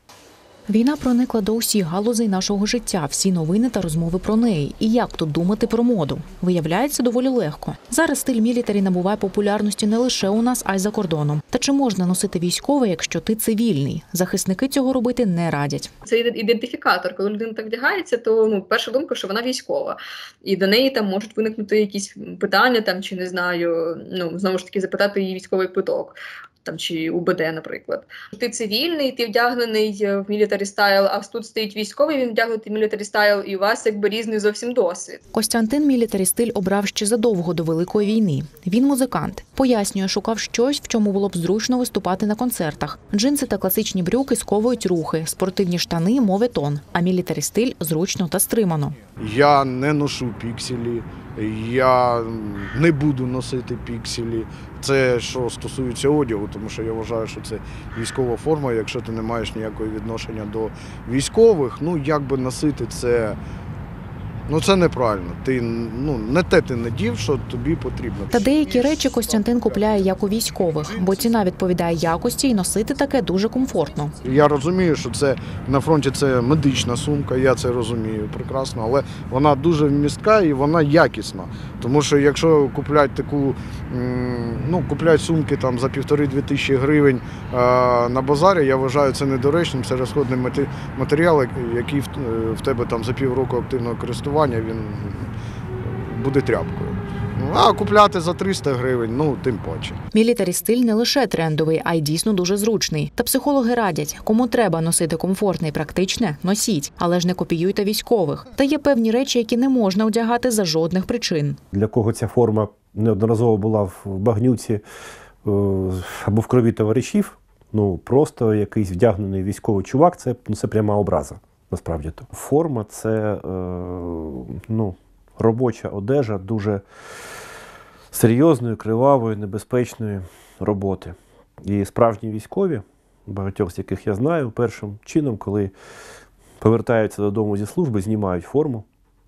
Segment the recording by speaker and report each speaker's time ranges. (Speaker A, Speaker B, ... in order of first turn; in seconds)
Speaker A: 0.7-15.9, 35.3-49.0, 68.3-74.1, 100.1-111.6
Speaker B: 16.0-35.2
Speaker C: 49.2-63.4, 64.5-68.9, 74.2-100.0
Speaker D: 111.7-114.8, 115.4-126.8, 128.1-135.7, 136.6-138.8